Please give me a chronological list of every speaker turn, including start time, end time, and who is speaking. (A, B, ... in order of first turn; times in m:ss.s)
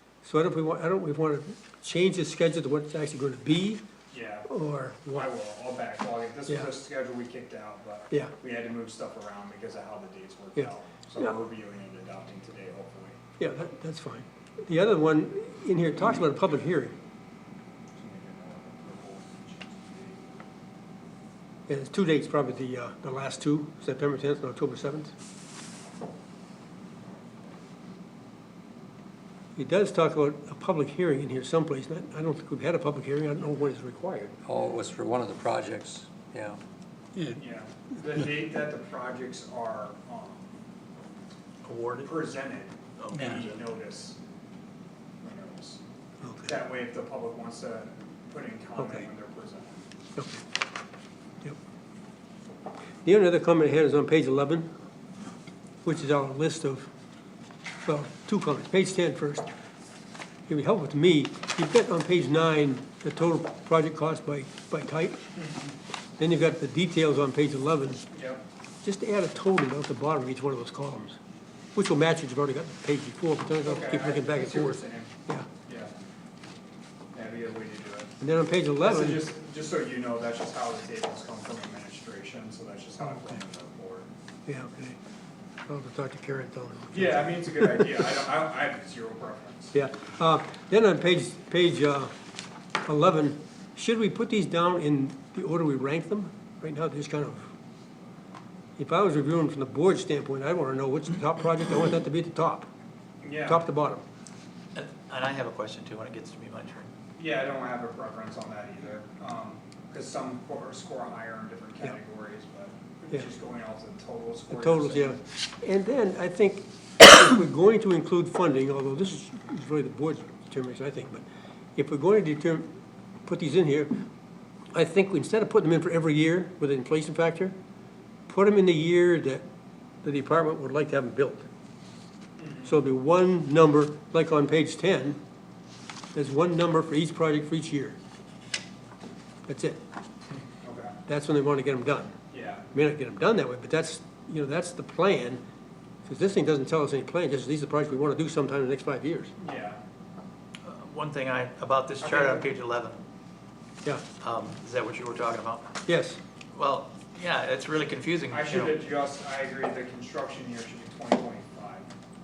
0:00.2-0:03.8 A
0:04.1-0:04.5 B
0:04.4-0:05.3 A
0:05.1-0:13.2 B
0:13.4-0:16.9 A
0:18.0-0:20.2 B
0:21.7-0:25.1 A
0:29.6-0:34.3 A
0:34.4-0:36.6 C
0:37.3-0:40.5 B
0:41.6-0:42.1 D
0:42.0-0:44.2 B
0:43.0-0:43.6 D
0:45.2-0:45.8 B
0:46.2-0:46.6 A
0:46.4-0:49.8 B
0:48.8-0:49.1 A
0:50.2-0:50.4 A
0:53.0-0:54.7 A
0:55.8-0:56.9 A
0:57.8-0:59.5 A
1:00.5-1:05.2 A
1:06.2-1:08.0 A
1:08.1-1:08.4 B
1:08.8-1:11.2 A
1:11.7-1:15.5 A
1:13.6-1:15.9 B
1:17.1-1:18.1 B
1:18.2-1:19.2 A
1:18.8-1:24.1 B
1:23.0-1:23.2 A
1:24.4-1:25.0 A
1:25.7-1:27.8 A
1:26.9-1:29.7 B
1:29.7-1:32.1 A
1:32.8-1:37.5 A
1:38.8-1:42.7 A
1:43.2-1:43.7 B
1:43.4-1:44.0 A
1:44.7-1:46.9 D
1:47.2-1:55.2 B
1:54.5-2:01.2 A
2:01.8-2:02.7 A
2:03.2-2:03.9 A
2:04.7-2:07.5 A
2:08.3-2:09.4 A
2:10.0-2:11.5 A
2:12.4-2:12.7 B
2:12.6-2:15.2 A
2:16.1-2:18.0 A
2:19.5-2:19.8 A
2:20.6-2:20.9 B
2:21.1-2:22.1 A
2:22.3-2:22.6 B
2:22.7-2:25.4 A
2:26.0-2:29.3 A
2:29.4-2:29.8 B
2:30.6-2:33.0 D
2:32.0-2:32.4 B
2:34.2-2:35.7 D
2:35.8-2:36.2 A
2:36.5-2:38.7 D
2:38.3-2:41.9 B